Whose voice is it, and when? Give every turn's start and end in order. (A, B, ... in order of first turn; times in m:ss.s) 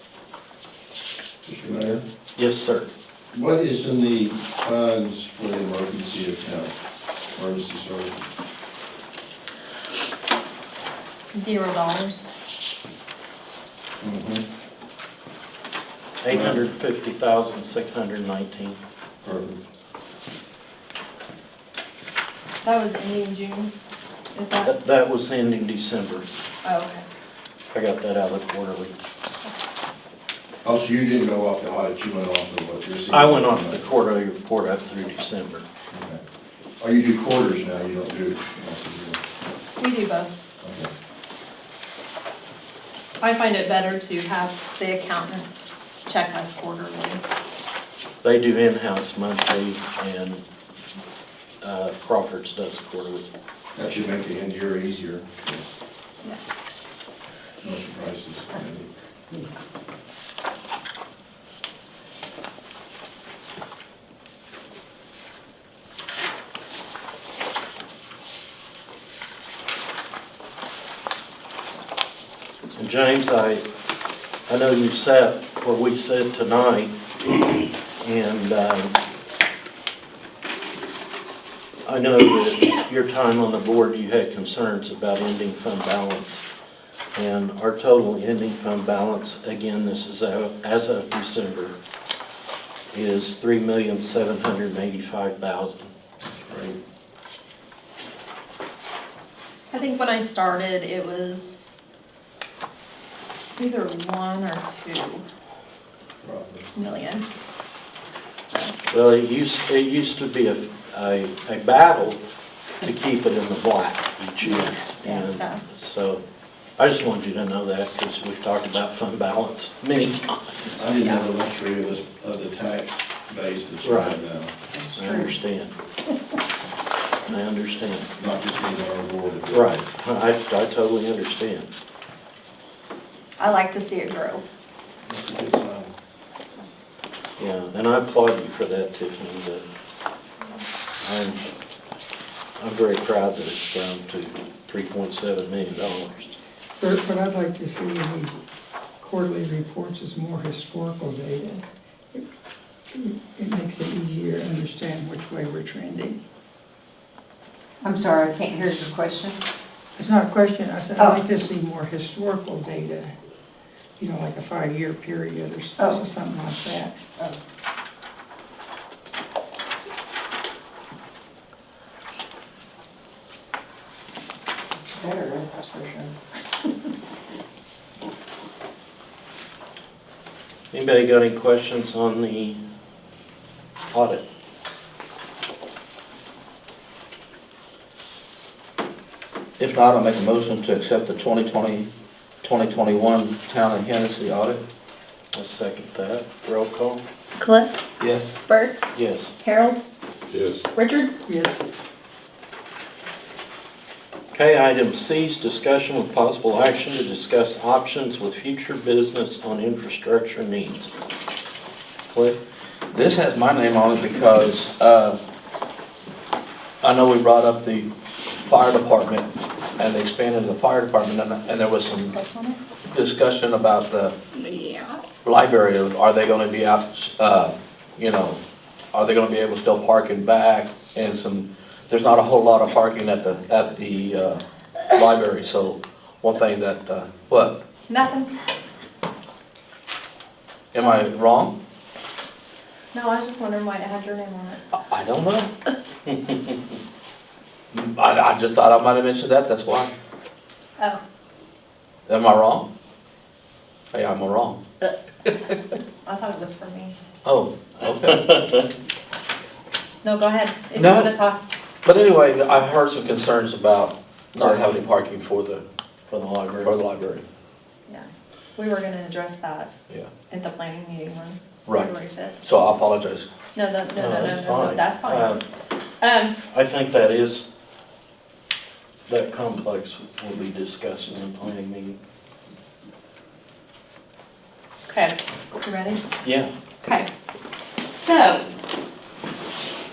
0:01.4-0:02.0 A
0:02.4-0:02.9 B
0:03.3-0:06.7 A
0:07.3-0:08.3 A
0:11.3-0:12.3 C
0:14.0-0:14.4 A
0:16.2-0:18.8 B
0:16.3-0:16.6 A
0:19.2-0:19.6 A
0:22.6-0:23.7 C
0:24.3-0:24.7 C
0:24.6-0:26.3 B
0:26.6-0:27.0 C
0:27.7-0:28.9 B
0:30.6-0:33.8 A
0:33.1-0:35.6 B
0:35.9-0:36.2 A
0:36.8-0:39.2 A
0:39.8-0:40.3 C
0:40.6-0:40.9 A
0:43.2-0:47.2 C
0:48.2-0:50.4 B
0:51.6-0:53.2 B
0:53.7-0:55.6 A
0:57.6-0:58.9 A
1:12.7-1:13.6 B
1:14.5-1:17.4 B
1:18.0-1:18.9 B
1:21.8-1:26.4 B
1:27.1-1:31.8 B
1:32.9-1:35.9 B
1:36.2-1:36.8 A
1:39.7-1:41.8 C
1:43.6-1:45.2 C
1:46.2-1:46.7 A
1:46.7-1:47.2 C
1:48.4-1:48.7 C
1:48.9-1:52.2 B
1:52.8-1:56.2 B
1:54.6-1:55.6 C
1:56.8-2:01.2 B
2:00.8-2:04.5 A
2:03.8-2:04.2 B
2:04.7-2:05.4 D
2:04.9-2:05.7 B
2:07.2-2:08.1 B
2:08.2-2:09.8 A
2:09.5-2:11.7 B
2:13.4-2:14.4 C
2:15.0-2:15.9 A
2:17.4-2:19.6 B
2:21.0-2:21.5 B
2:22.6-2:26.3 B
2:26.8-2:28.4 E
2:29.0-2:32.2 E
2:32.9-2:36.2 E
2:37.8-2:39.4 D
2:40.0-2:43.1 E
2:41.0-2:41.2 D
2:44.0-2:47.0 E
2:45.8-2:46.1 D
2:54.8-2:56.1 D
3:00.7-3:02.6 B
3:03.9-3:04.2 B
3:09.6-3:11.9 F
3:12.4-3:14.6 F
3:15.3-3:17.0 B
3:17.4-3:17.7 C
3:18.0-3:18.3 F
3:18.5-3:18.8 C
3:18.9-3:19.3 B
3:19.4-3:19.8 C
3:20.7-3:21.1 C
3:21.2-3:21.6 E
3:24.3-3:30.9 B
3:32.1-3:32.4 B
3:32.9-3:35.2 F
3:36.8-3:37.9 F
3:38.4-3:42.2 F
3:42.0-3:42.6 C
3:42.9-3:44.1 F
3:44.4-3:45.0 C
3:45.2-3:48.4 F
3:48.9-3:57.6 F
3:57.9-3:58.3 C
4:00.7-4:01.6 F
4:02.9-4:04.6 C
4:04.7-4:05.5 F
4:06.1-4:06.4 B
4:07.7-4:09.9 F
4:12.1-4:12.7 F
4:13.9-4:14.6 F
4:15.2-4:15.5 F
4:16.0-4:16.9 C
4:17.2-4:18.3 F
4:18.0-4:18.7 B
4:20.0-4:21.4 C
4:20.8-4:21.1 F
4:21.8-4:25.6 F
4:24.4-4:24.8 B
4:26.1-4:26.7 B
4:26.6-4:27.2 F
4:27.9-4:29.7 C
4:30.3-4:32.4 C
4:32.4-4:33.3 F
4:33.5-4:35.4 C
4:34.0-4:35.4 B
4:36.0-4:36.4 C
4:36.5-4:37.5 B
4:39.1-4:42.0 B
4:44.9-4:46.0 C
4:46.2-4:46.5 B
4:46.8-4:47.1 C
4:47.9-4:48.5 C